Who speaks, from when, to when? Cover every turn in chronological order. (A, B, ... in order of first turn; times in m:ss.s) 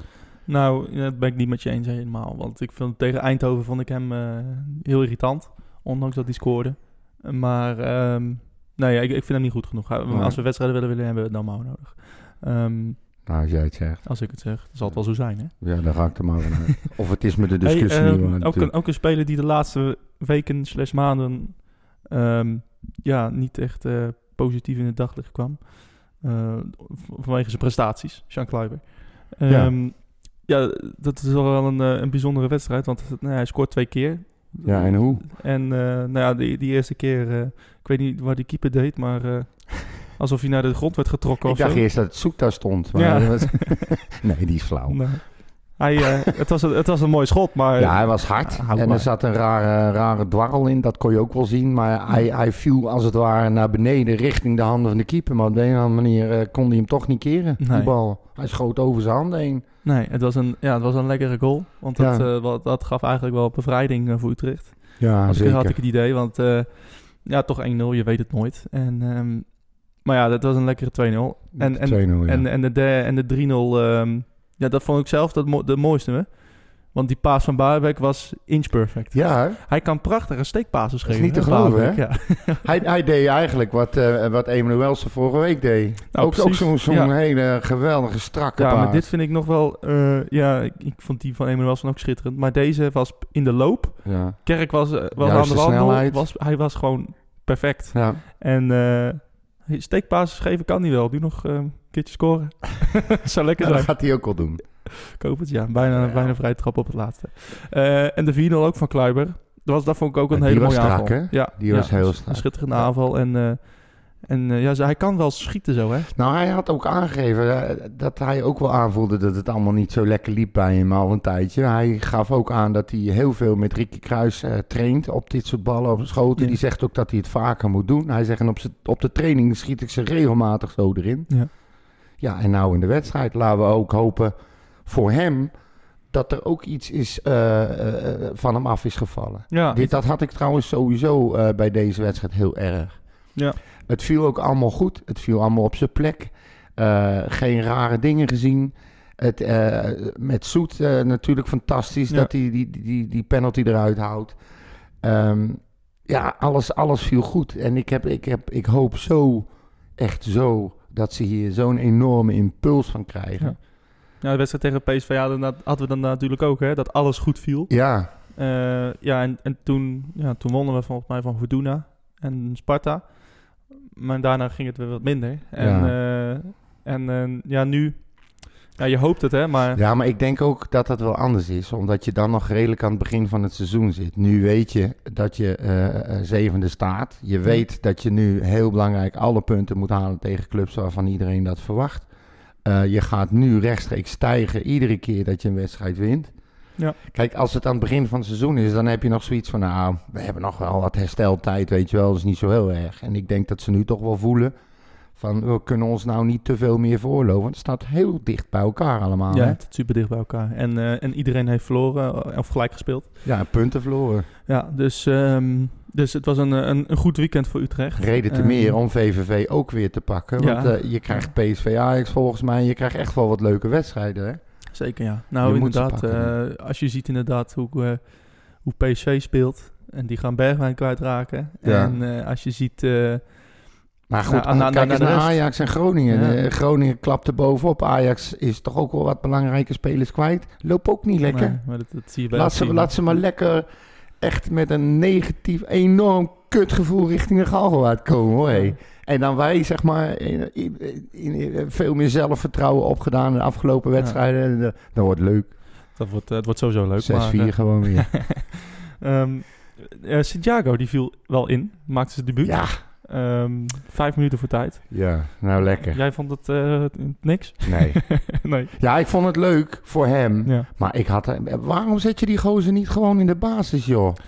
0:00.4-0:13.3 A
0:10.1-0:10.4 B
0:13.2-0:18.7 B
0:14.0-0:16.3 A
0:17.6-0:42.0 A
0:29.4-0:29.7 B
0:34.6-0:35.2 B
0:41.4-0:45.7 B
0:42.9-0:44.0 A
0:44.9-0:49.1 A
0:47.8-0:59.6 B
0:57.6-0:57.9 A
0:59.8-1:22.7 A
1:02.0-1:02.3 B
1:05.0-1:05.8 B
1:11.5-1:12.5 B
1:19.1-1:19.6 B
1:21.0-1:29.1 B
1:26.1-1:27.1 A
1:28.6-1:44.5 A
1:34.0-1:36.3 B
1:37.9-1:38.2 B
1:43.6-1:44.9 B
1:45.1-1:56.1 A
1:45.9-1:46.3 B
1:50.3-1:52.9 B
1:56.1-2:34.4 B
2:19.5-2:19.9 A
2:35.0-2:43.6 B
2:43.4-2:59.8 A
2:47.7-2:48.1 B
2:55.6-2:56.0 B
2:59.7-3:12.1 B
3:12.6-3:24.5 B
3:25.1-3:29.6 B
3:29.3-3:33.2 A
3:33.2-3:34.3 B
3:34.4-3:38.8 A
3:38.0-3:44.7 B
3:40.4-3:41.3 A
3:44.7-3:56.5 A
3:45.4-3:46.4 B
3:51.6-3:52.0 B
3:54.1-4:03.7 B
4:01.3-4:03.2 A
4:04.2-4:15.6 B
4:08.5-4:08.8 A
4:15.9-4:28.7 A
4:17.0-4:18.2 B
4:22.4-4:22.8 B
4:24.9-4:26.0 B
4:27.6-4:34.2 B